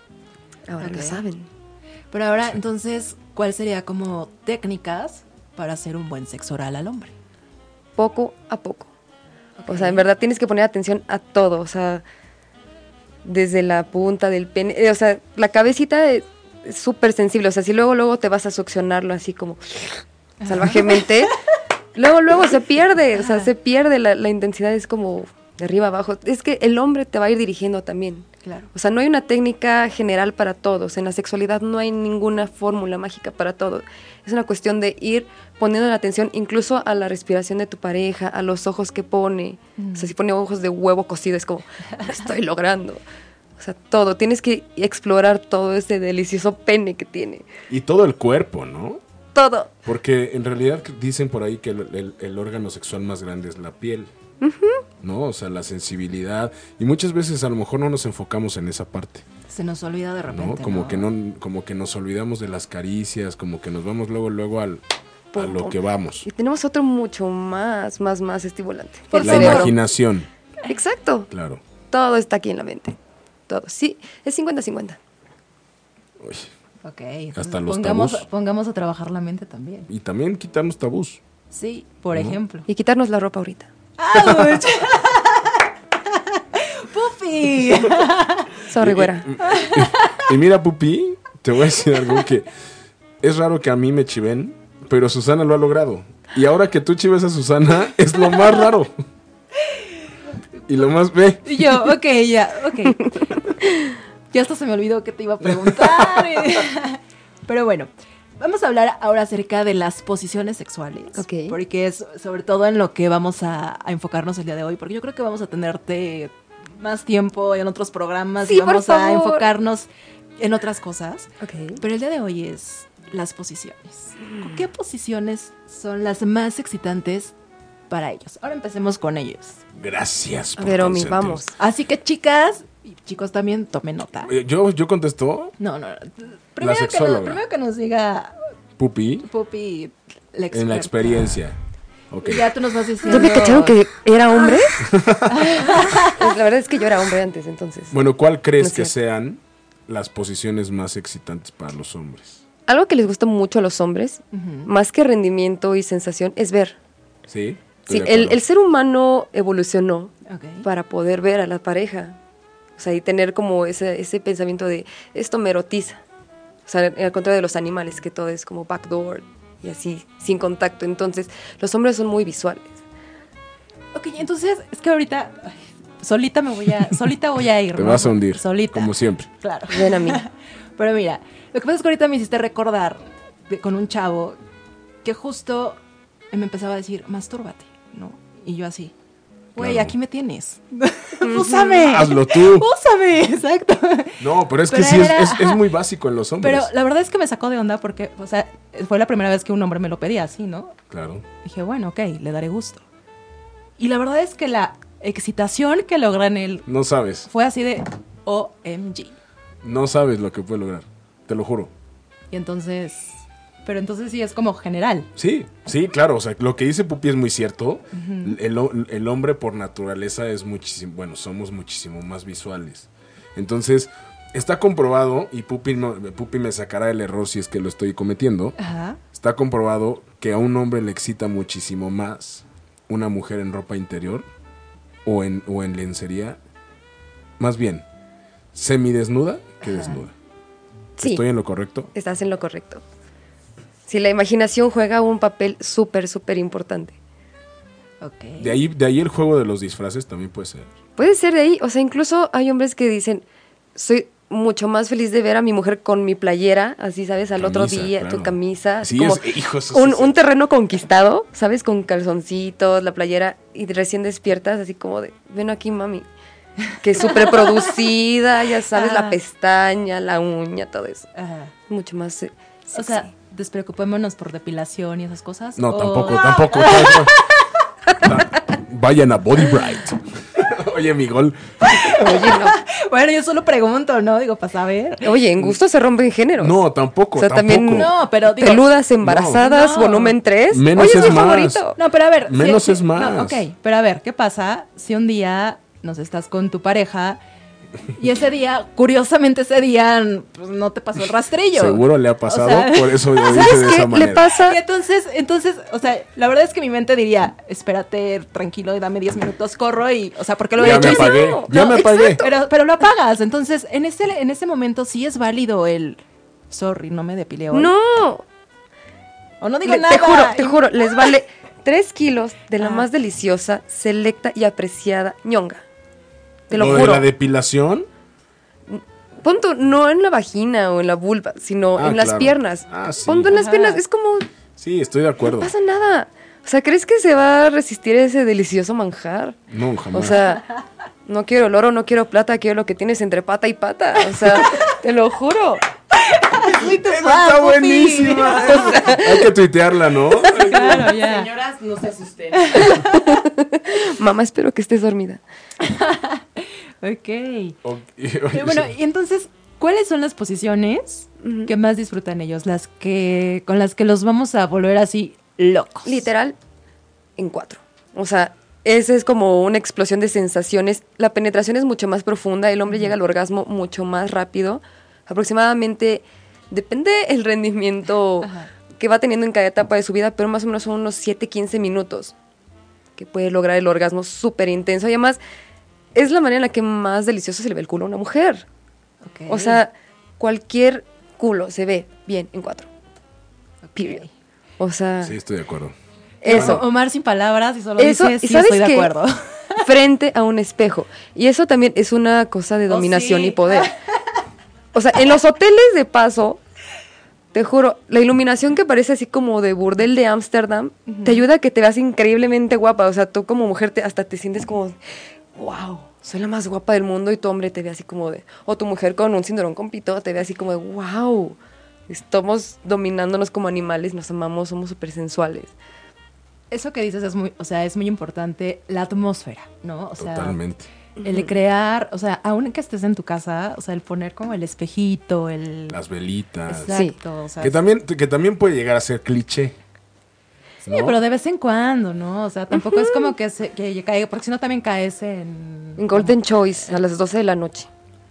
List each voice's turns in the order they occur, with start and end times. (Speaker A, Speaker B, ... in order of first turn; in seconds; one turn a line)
Speaker A: 0.7-1.5
Speaker B: 0.8-1.2
Speaker B: 2.1-7.1
Speaker A: 8.0-8.9
Speaker B: 9.6-10.1
Speaker A: 9.7-12.0
Speaker A: 13.2-21.4
Speaker B: 20.4-21.0
Speaker A: 21.9-43.0
Speaker B: 23.2-23.5
Speaker B: 28.4-28.7
Speaker B: 39.8-40.1
Speaker A: 43.6-47.5
Speaker C: 47.7-49.0
Speaker A: 49.4-49.7
Speaker C: 49.9-54.1
Speaker A: 54.4-54.8
Speaker C: 55.0-59.2
Speaker B: 59.5-61.1
Speaker C: 60.3-64.8
Speaker A: 65.3-69.8
Speaker C: 65.3-66.3
Speaker B: 69.1-69.7
Speaker C: 69.2-70.3
Speaker A: 70.7-71.3
Speaker C: 71.3-71.6
Speaker A: 71.9-73.0
Speaker A: 73.5-75.0
Speaker C: 76.2-76.5
Speaker B: 76.8-79.9
Speaker C: 77.3-78.2
Speaker C: 79.9-81.2
Speaker B: 81.5-82.7
Speaker A: 82.7-83.7
Speaker B: 84.0-88.5
Speaker C: 84.2-84.6
Speaker A: 88.7-89.3
Speaker C: 88.8-92.5
Speaker B: 89.4-90.3
Speaker C: 93.2-98.9
Speaker C: 100.7-101.4
Speaker B: 101.4-103.2
Speaker A: 103.6-103.9
Speaker B: 104.3-119.9
Speaker C: 105.6-106.3
Speaker A: 111.2-111.5
Speaker A: 118.5-119.5
Speaker B: 120.4-127.3
Speaker A: 121.4-121.8
Speaker B: 127.9-129.6
Speaker C: 129.7-131.4
Speaker A: 130.6-131.6
Speaker B: 131.6-134.3
Speaker C: 134.3-135.6
Speaker B: 135.6-138.4
Speaker C: 136.6-137.4
Speaker C: 138.8-139.3
Speaker B: 139.2-141.3
Speaker C: 140.5-141.6
Speaker C: 142.1-142.5
Speaker B: 142.2-143.8
Speaker A: 143.1-144.8
Speaker C: 144.8-145.6
Speaker B: 145.3-146.2
Speaker A: 145.6-147.9
Speaker C: 147.9-152.4
Speaker A: 148.6-148.9
Speaker A: 152.7-156.8
Speaker B: 154.3-154.7
Speaker C: 157.3-158.4
Speaker A: 157.9-162.2
Speaker B: 160.3-160.7
Speaker A: 162.8-166.0
Speaker A: 166.7-172.8
Speaker B: 173.9-184.4
Speaker C: 177.8-179.3
Speaker A: 179.7-180.2
Speaker B: 185.0-185.8
Speaker B: 186.3-188.9
Speaker B: 189.6-195.7
Speaker C: 189.6-189.9
Speaker A: 191.2-191.9
Speaker C: 191.8-192.7
Speaker C: 194.2-196.7
Speaker B: 196.4-200.8
Speaker C: 200.9-201.2
Speaker B: 201.4-202.8
Speaker B: 203.8-206.7
Speaker C: 206.7-207.3
Speaker B: 207.3-209.2
Speaker C: 209.6-211.7
Speaker B: 212.3-215.1
Speaker C: 215.2-228.6
Speaker B: 217.9-218.4
Speaker B: 228.6-229.0
Speaker C: 229.1-234.3
Speaker C: 235.1-236.4
Speaker C: 237.4-237.8
Speaker C: 238.5-240.1
Speaker B: 239.6-240.0
Speaker A: 241.0-241.2
Speaker C: 241.0-241.9
Speaker A: 241.9-242.8
Speaker A: 243.9-246.9
Speaker B: 248.0-248.6
Speaker C: 248.4-250.7
Speaker A: 251.0-266.1
Speaker C: 257.4-260.1
Speaker A: 266.8-271.1
Speaker B: 266.9-267.7
Speaker B: 268.7-269.2
Speaker B: 271.2-271.5
Speaker A: 271.7-273.1
Speaker B: 272.7-277.5
Speaker C: 275.6-277.2
Speaker C: 278.0-282.0
Speaker B: 281.8-285.1
Speaker A: 281.8-282.6
Speaker A: 285.0-286.6
Speaker C: 286.4-287.9
Speaker A: 287.1-291.8
Speaker B: 287.7-288.7
Speaker C: 289.0-289.4
Speaker B: 289.4-290.2
Speaker C: 290.5-291.6
Speaker B: 290.8-291.2
Speaker B: 291.8-297.2
Speaker C: 292.3-293.4
Speaker B: 297.9-303.7
Speaker C: 301.5-304.3
Speaker A: 303.2-304.6
Speaker B: 304.3-317.7
Speaker C: 310.6-312.2
Speaker A: 310.6-312.3
Speaker A: 317.5-318.2
Speaker B: 319.4-321.0
Speaker A: 319.6-325.6
Speaker B: 322.6-322.9
Speaker A: 326.5-327.1
Speaker C: 326.5-327.9
Speaker A: 328.7-334.3
Speaker C: 331.8-333.3
Speaker B: 333.3-333.8
Speaker C: 334.6-335.5
Speaker A: 335.2-340.5
Speaker C: 339.5-340.2
Speaker A: 341.1-345.6
Speaker B: 346.0-348.9
Speaker C: 346.5-351.0
Speaker A: 348.5-349.3
Speaker B: 350.4-351.4
Speaker B: 352.3-353.2
Speaker A: 352.5-355.2
Speaker B: 355.6-357.6
Speaker C: 357.6-358.7
Speaker B: 358.3-366.1
Speaker A: 361.2-361.5
Speaker A: 365.9-366.4
Speaker A: 367.2-382.1
Speaker B: 372.7-372.9
Speaker B: 378.2-378.5
Speaker A: 383.0-385.2
Speaker A: 385.9-388.5
Speaker B: 389.0-389.6
Speaker A: 389.3-392.7
Speaker B: 393.7-394.1
Speaker A: 394.6-395.2
Speaker C: 395.0-395.7
Speaker A: 396.2-396.6
Speaker B: 396.2-399.7
Speaker C: 396.3-396.6
Speaker A: 397.8-398.9
Speaker A: 399.6-403.7
Speaker B: 402.7-403.8
Speaker A: 404.7-406.4
Speaker A: 407.3-414.8
Speaker B: 410.9-411.2
Speaker A: 415.4-421.4
Speaker A: 421.9-425.5
Speaker B: 426.5-430.4
Speaker C: 430.0-430.7
Speaker A: 431.0-431.3
Speaker B: 431.0-435.8
Speaker C: 435.7-436.8
Speaker B: 436.5-437.6
Speaker A: 436.7-436.9
Speaker C: 437.4-439.6
Speaker C: 440.6-441.0
Speaker B: 440.7-446.2
Speaker A: 442.5-443.1
Speaker A: 445.8-447.7